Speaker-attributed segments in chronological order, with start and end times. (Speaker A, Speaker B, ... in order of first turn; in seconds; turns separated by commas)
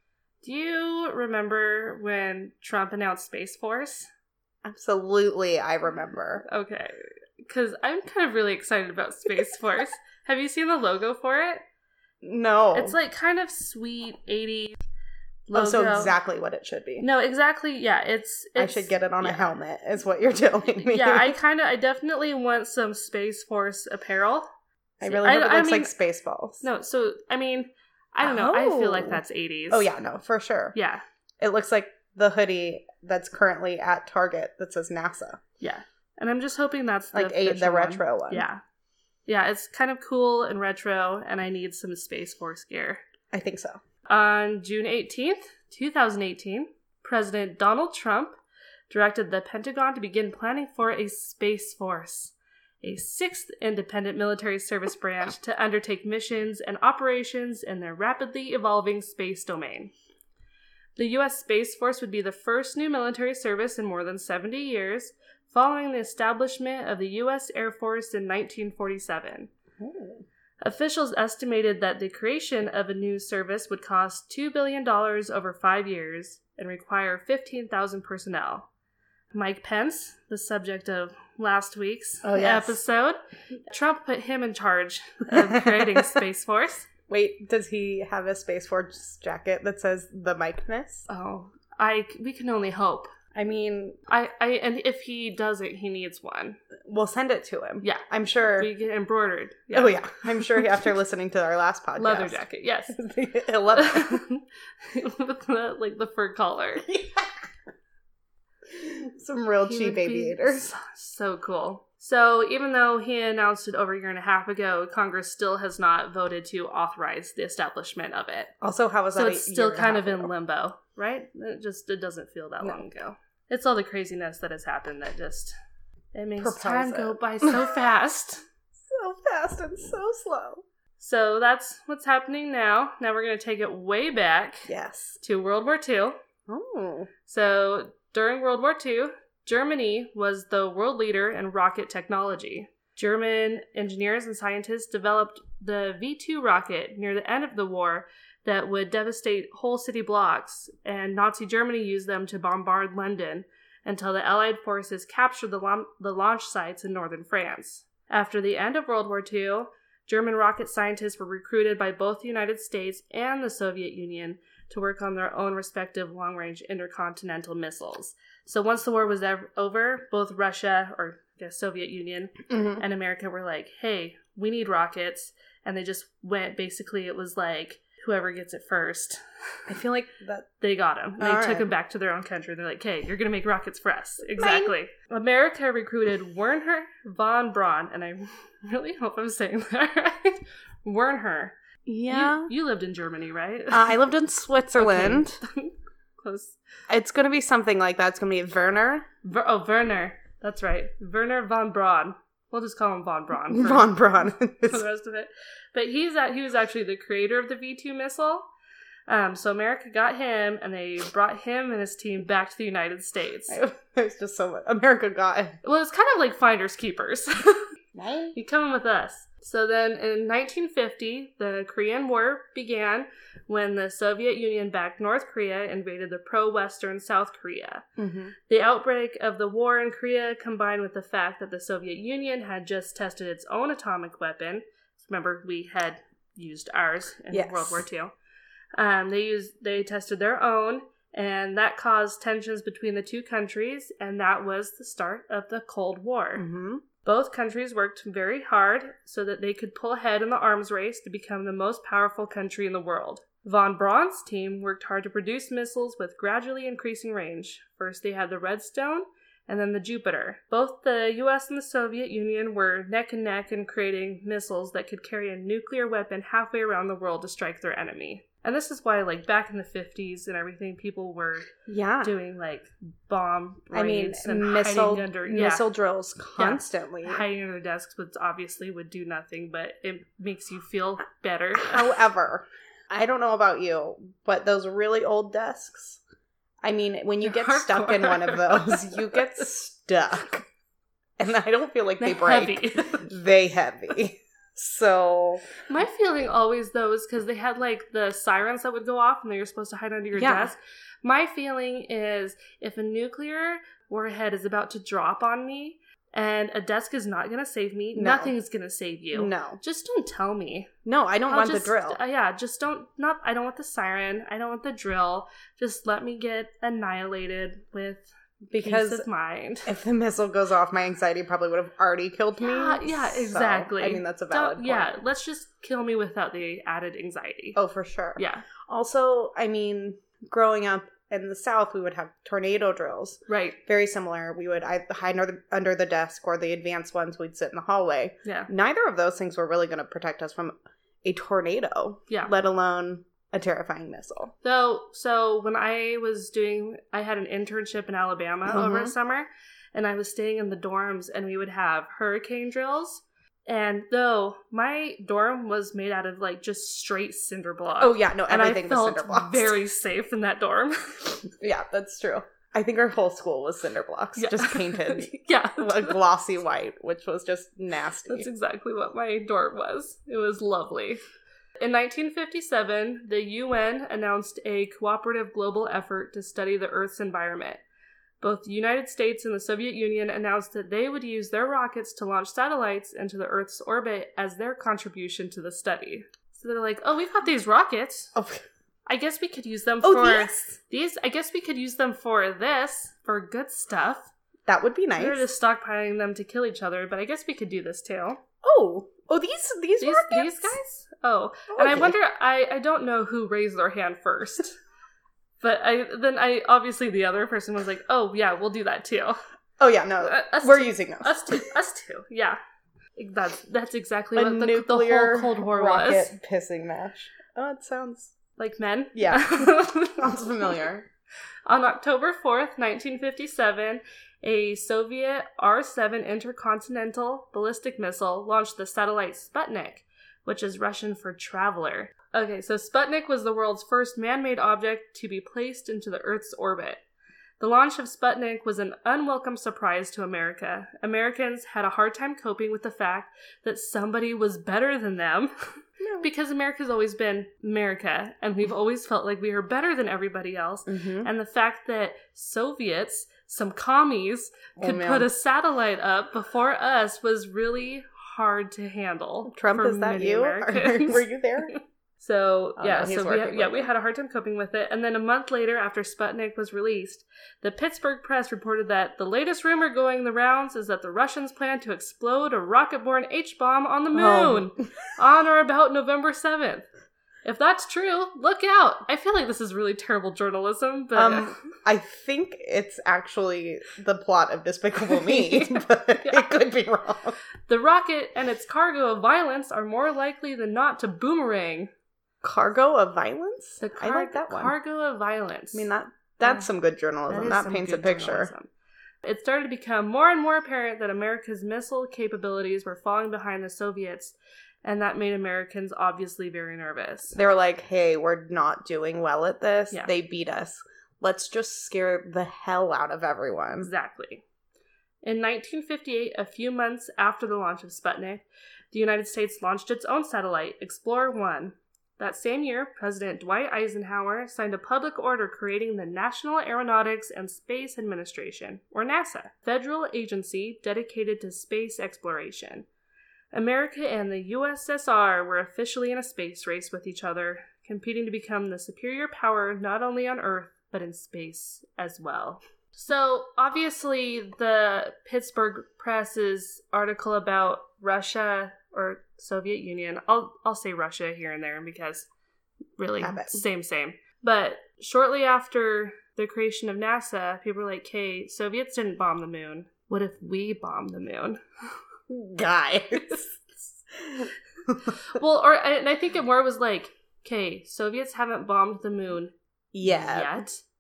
Speaker A: 0.4-4.1, Speaker B: 4.6-6.5, Speaker A: 6.4-11.6, Speaker B: 12.2-13.0, Speaker A: 12.7-14.8, Speaker A: 15.5-16.1, Speaker B: 15.5-17.1, Speaker A: 17.0-19.5, Speaker B: 18.6-21.4, Speaker A: 20.8-24.5, Speaker B: 25.0-26.6, Speaker A: 25.0-25.9, Speaker A: 26.6-29.9, Speaker B: 28.2-30.7, Speaker A: 30.7-31.0, Speaker B: 31.4-35.4, Speaker A: 35.6-38.6, Speaker B: 37.1-38.5, Speaker A: 39.3-43.0, Speaker B: 43.3-43.8, Speaker A: 44.1-48.4, Speaker A: 48.9-59.9, Speaker A: 61.0-69.5, Speaker B: 69.8-70.2, Speaker A: 70.6-78.7, Speaker A: 79.3-86.9, Speaker B: 82.2-82.8, Speaker B: 85.3-86.2, Speaker B: 87.1-91.1, Speaker A: 91.1-93.1, Speaker B: 93.3-94.0, Speaker A: 94.1-96.6, Speaker B: 96.9-98.7, Speaker A: 98.6-100.8, Speaker B: 99.7-104.2, Speaker A: 102.0-103.0, Speaker A: 103.7-106.9, Speaker B: 106.8-107.5, Speaker B: 108.7-110.7, Speaker A: 109.7-118.5, Speaker B: 118.6-120.3, Speaker A: 119.1-125.5, Speaker A: 126.1-128.4, Speaker B: 126.4-127.7, Speaker B: 128.9-130.6, Speaker A: 131.0-136.2, Speaker B: 134.7-135.2, Speaker B: 136.5-137.1, Speaker A: 137.3-179.2, Speaker B: 172.5-172.8, Speaker B: 179.7-180.5, Speaker A: 180.6-191.6, Speaker B: 181.2-181.7, Speaker B: 184.4-184.7, Speaker B: 191.9-192.5, Speaker A: 192.1-194.0, Speaker B: 193.7-195.4, Speaker A: 194.8-196.6, Speaker B: 196.9-199.1, Speaker A: 199.2-204.0, Speaker B: 203.5-204.8, Speaker A: 204.7-208.5, Speaker A: 209.1-213.6, Speaker B: 213.5-215.6, Speaker A: 215.6-217.7, Speaker B: 217.9-218.4, Speaker A: 218.3-227.8, Speaker B: 228.0-228.3, Speaker A: 228.5-238.1, Speaker B: 237.3-237.9, Speaker A: 238.8-246.5, Speaker B: 246.3-246.8, Speaker A: 247.0-271.5, Speaker B: 271.7-272.1, Speaker A: 272.0-275.7, Speaker B: 273.7-277.2, Speaker A: 276.4-281.9, Speaker B: 281.6-286.0, Speaker B: 286.6-290.4, Speaker A: 287.2-289.4, Speaker B: 291.2-295.4, Speaker A: 292.0-293.1, Speaker A: 295.7-310.7, Speaker B: 300.1-300.5, Speaker B: 307.9-308.3, Speaker B: 309.1-309.6, Speaker B: 310.9-312.0, Speaker A: 311.3-319.7, Speaker B: 318.5-319.1, Speaker B: 319.6-324.9, Speaker A: 322.4-327.6, Speaker B: 327.6-344.3, Speaker A: 328.1-328.5, Speaker A: 333.3-333.6, Speaker A: 344.4-361.2, Speaker B: 348.5-348.9, Speaker B: 357.8-359.6, Speaker B: 361.4-368.3, Speaker A: 364.1-366.0, Speaker A: 368.1-371.0, Speaker A: 371.6-377.6, Speaker A: 378.2-388.1, Speaker B: 388.1-388.4, Speaker A: 388.9-394.1, Speaker B: 389.8-390.6, Speaker B: 394.4-395.2, Speaker A: 394.9-398.2, Speaker B: 398.4-400.6, Speaker A: 399.8-404.6, Speaker B: 401.5-401.9, Speaker A: 405.4-409.2, Speaker B: 409.6-411.5, Speaker A: 410.0-412.4, Speaker A: 413.0-416.1, Speaker B: 414.1-418.1, Speaker A: 418.4-420.5, Speaker B: 418.9-420.9, Speaker A: 421.5-436.8, Speaker A: 437.4-445.3, Speaker B: 445.8-446.1, Speaker A: 446.0-476.6, Speaker B: 450.6-451.1, Speaker B: 454.6-455.1, Speaker B: 459.2-461.5, Speaker B: 462.6-463.7, Speaker B: 473.9-474.5, Speaker A: 477.2-481.4, Speaker B: 480.9-487.2, Speaker A: 484.9-486.3, Speaker A: 487.5-491.7, Speaker B: 492.2-494.5, Speaker A: 493.6-495.7, Speaker B: 495.5-498.3, Speaker A: 497.1-498.5, Speaker A: 499.0-507.2, Speaker B: 507.2-513.7, Speaker A: 513.6-514.2, Speaker A: 515.0-532.7, Speaker A: 533.3-552.1, Speaker A: 552.8-561.4, Speaker B: 553.0-553.4, Speaker B: 562.1-565.0, Speaker A: 565.0-570.6, Speaker B: 569.7-570.4